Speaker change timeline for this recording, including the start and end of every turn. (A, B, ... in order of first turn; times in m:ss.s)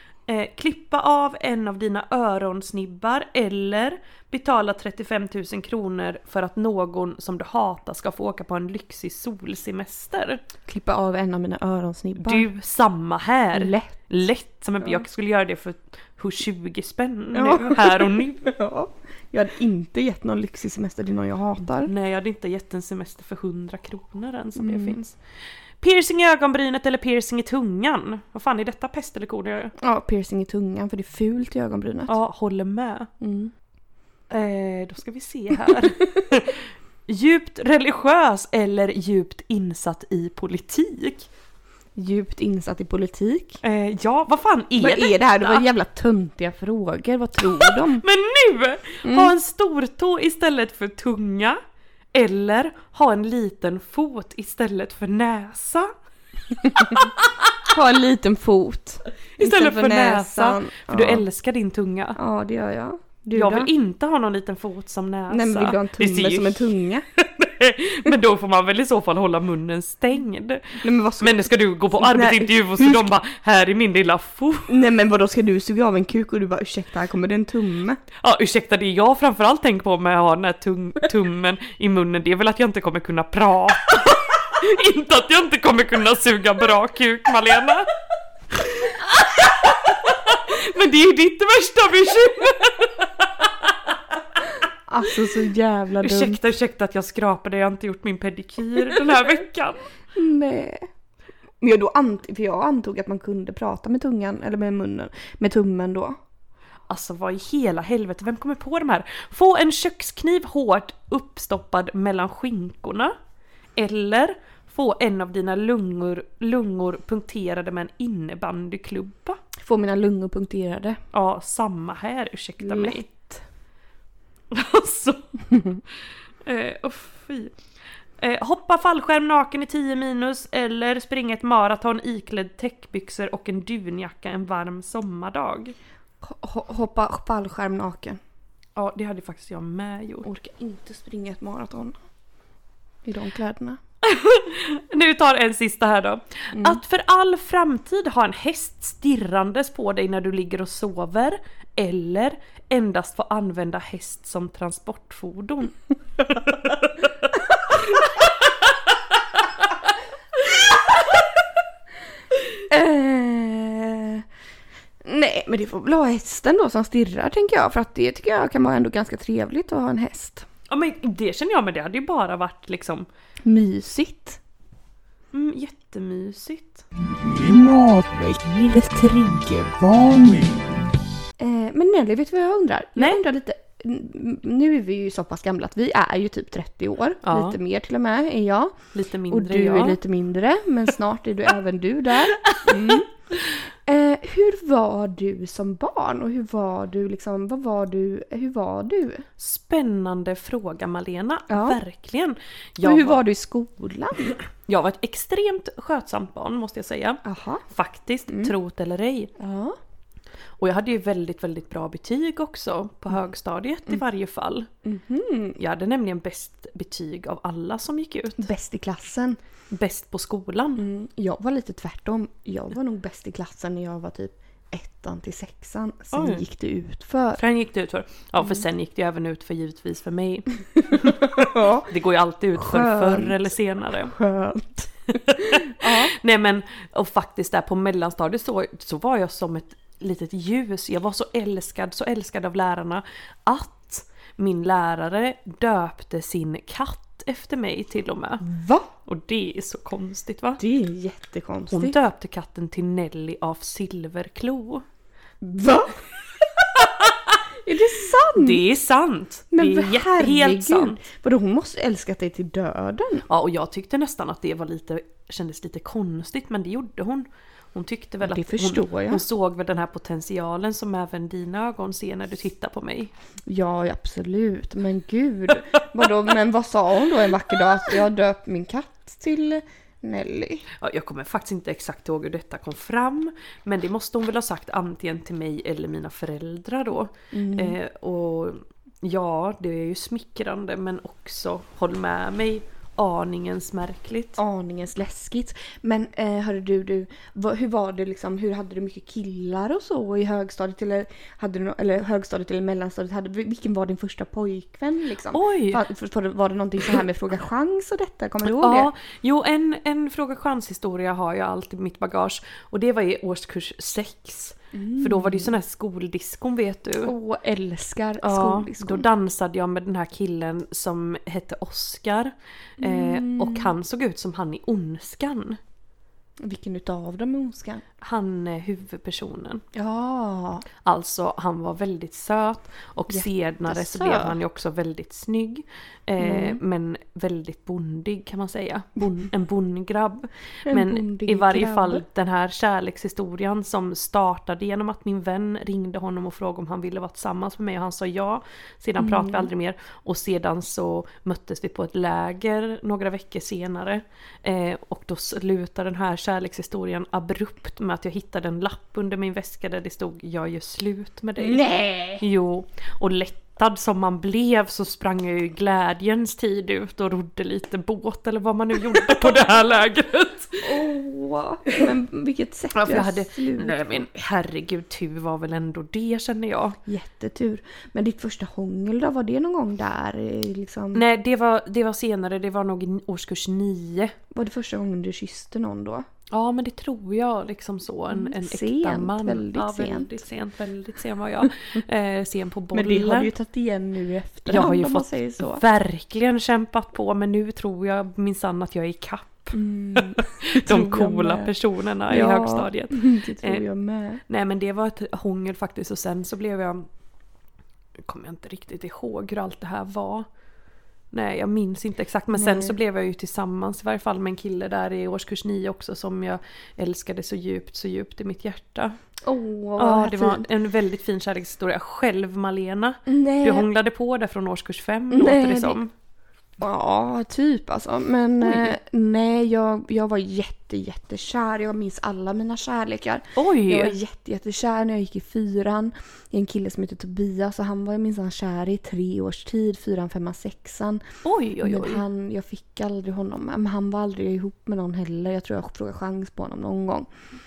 0:00.3-0:10.4 A
0:10.7-0:12.5 B
0:12.2-0:18.5 A
0:13.6-0:13.9 B
0:17.3-0:21.9 B
0:21.8-0:25.2 A
0:24.6-0:25.0 B
0:25.8-0:29.7 A
0:29.8-0:32.2 B
0:32.1-0:33.1 A
0:33.2-0:33.5 B
0:34.3-0:41.3 A
0:42.0-0:43.6 B
0:43.6-0:45.6 A
0:44.8-0:48.0 B
0:47.6-0:51.6 A
0:49.0-0:49.3 B
0:52.1-0:55.9 A
0:56.8-0:57.5 A
0:57.7-1:01.2 B
0:59.4-1:02.2 A
1:02.2-1:03.7 B
1:03.3-1:14.8 A
1:05.3-1:07.0 B
1:10.8-1:11.4 B
1:12.0-1:13.0 B
1:14.7-1:18.0 B
1:18.2-1:27.9 A
1:28.5-1:33.7 A
1:34.9-1:36.4 B
1:36.0-1:39.8 A
1:40.2-1:40.8 B
1:41.6-1:46.2 B
1:46.9-1:53.1 A
1:53.8-1:59.4 A
1:59.6-2:01.0 B
2:01.1-2:03.1 A
2:02.6-2:03.3 B
2:04.5-2:05.2 A
2:06.4-2:07.6 A
2:08.2-2:15.8 A
2:16.2-2:18.2 B
2:18.8-2:20.3 A
2:20.2-2:22.0 B
2:23.1-2:23.8 B
2:24.0-2:35.8 A
2:36.3-2:36.8 A
2:42.7-2:44.2 B
2:45.1-2:50.4 B
2:50.7-2:53.1 A
2:53.5-2:54.4 B
2:55.3-2:56.8 A
2:57.4-3:00.5 B
3:01.4-3:08.7 B
3:03.0-3:03.2 A
3:07.2-3:07.6 A
3:08.9-3:10.0 A
3:09.3-3:13.1 B
3:12.4-3:13.0 A
3:13.9-3:19.2 B
3:19.4-3:23.2 A
3:21.5-3:21.8 B
3:22.8-3:24.4 B
3:24.6-3:29.3 A
3:27.2-3:27.6 B
3:29.4-3:29.8 B
3:30.6-3:34.7 A
3:34.8-3:35.6 B
3:35.6-3:38.5 A
3:38.4-3:39.4 B
3:39.7-3:40.8 A
3:40.8-3:47.4 B
3:46.1-3:46.4 A
3:47.4-3:54.1 A
3:51.5-3:51.9 B
3:52.6-3:53.4 B
3:54.0-3:54.9 B
3:55.2-4:08.4 A
3:55.8-3:56.1 B
4:08.4-4:08.9 B
4:09.1-4:10.6 A
4:10.6-4:12.0 B
4:11.7-4:14.8 A
4:15.4-4:16.0 B
4:16.8-4:17.2 A
4:17.7-4:18.6 B
4:18.4-4:21.0 A
4:19.5-4:23.2 B
4:23.3-4:33.1 A
4:28.2-4:29.2 B
4:33.5-4:40.6 B
4:40.8-4:54.4 A
4:47.3-4:47.8 B
4:54.4-5:08.9 B
5:05.3-5:05.8 A
5:08.4-5:17.1 A
5:14.7-5:15.5 B
5:17.0-5:19.0 B
5:18.2-5:25.6 A
5:22.8-5:23.7 B
5:26.4-5:27.8 B
5:28.0-5:29.6 A
5:29.8-5:30.6 B
5:30.8-6:01.6 A
5:33.1-5:34.4 B
5:36.2-5:36.6 B
5:40.7-5:42.0 B
5:49.0-5:49.5 B
6:01.4-6:02.2 B
6:02.2-6:10.8 A
6:10.6-6:14.0 B
6:12.8-6:16.8 A
6:16.9-6:21.0 B
6:20.9-6:24.2 A
6:24.3-6:26.0 B
6:26.3-6:33.3 A
6:28.1-6:30.2 B
6:32.7-6:35.6 B
6:34.5-6:43.6 A
6:39.5-6:41.5 B
6:42.1-6:44.2 B
6:44.3-6:46.9 A
6:48.0-6:50.3 A
6:51.1-6:59.0 A
6:52.3-6:52.7 B
6:59.2-7:00.5 B
6:59.8-7:05.9 A
7:03.1-7:03.7 B
7:05.1-7:05.8 B
7:06.6-7:21.0 B
7:08.4-7:08.8 A
7:13.4-7:14.0 A
7:21.2-7:22.0 A
7:21.6-7:27.1 B